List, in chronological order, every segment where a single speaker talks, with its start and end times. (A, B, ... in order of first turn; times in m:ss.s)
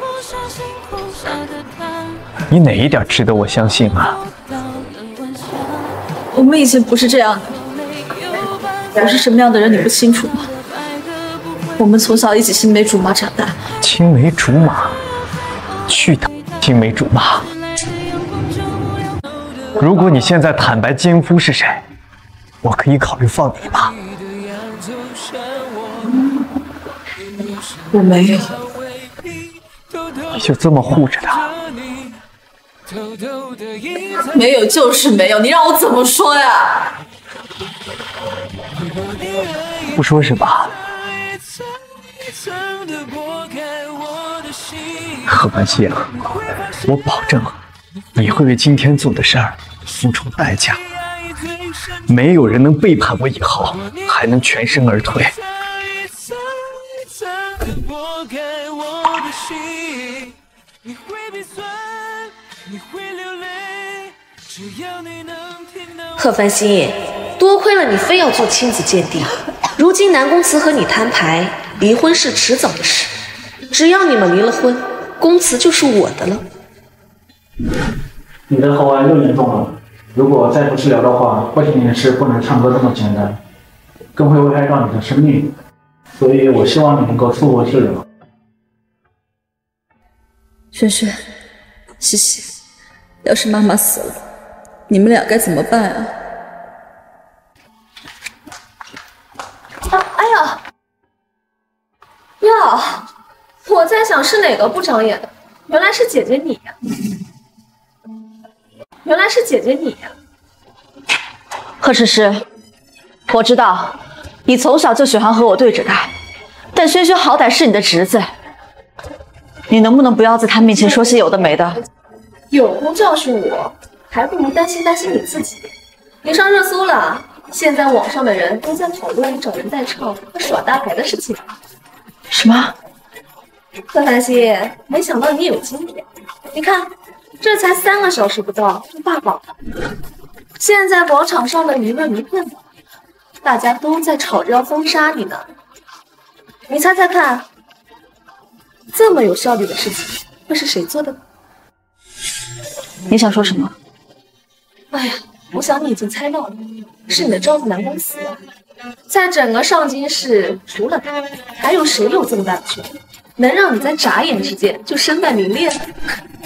0:02.5-0:04.2 A
0:06.3-0:07.6 B
0:09.0-0:10.5 B
0:11.8-0:13.6 B
0:13.8-0:15.0 A
0:15.9-0:17.5 A
0:19.8-0:21.9 A
0:22.6-0:23.9 A
0:27.9-0:28.6 B
0:30.3-0:31.5 A
0:34.3-0:36.9 B
0:39.9-0:40.8 A
0:45.2-0:46.2 A
0:46.8-0:47.6 A
0:48.2-0:50.8 A
0:52.1-0:55.4 A
1:06.2-1:13.1 C
1:13.7-1:16.4 C
1:18.5-1:23.4 D
1:24.2-1:25.5 D
1:26.2-1:28.0 D
1:30.7-1:31.2 B
1:32.0-1:32.6 B
1:33.2-1:34.2 B
1:34.9-1:36.1 B
1:39.9-1:40.6 E
1:42.4-1:43.1 E
1:43.6-1:46.8 E
1:49.0-1:50.1 E
1:51.8-1:52.4 B
1:53.3-1:56.1 B
1:56.7-1:58.3 B
1:59.7-2:01.8 B
2:02.5-2:05.7 E
2:06.2-2:11.5 E
2:12.3-2:12.8 B
2:13.9-2:19.5 E
2:20.6-2:22.6 E
2:23.4-2:25.5 E
2:26.7-2:27.5 E
2:28.9-2:31.2 E
2:33.1-2:33.7 B
2:34.9-2:38.4 E
2:39.1-2:45.9 E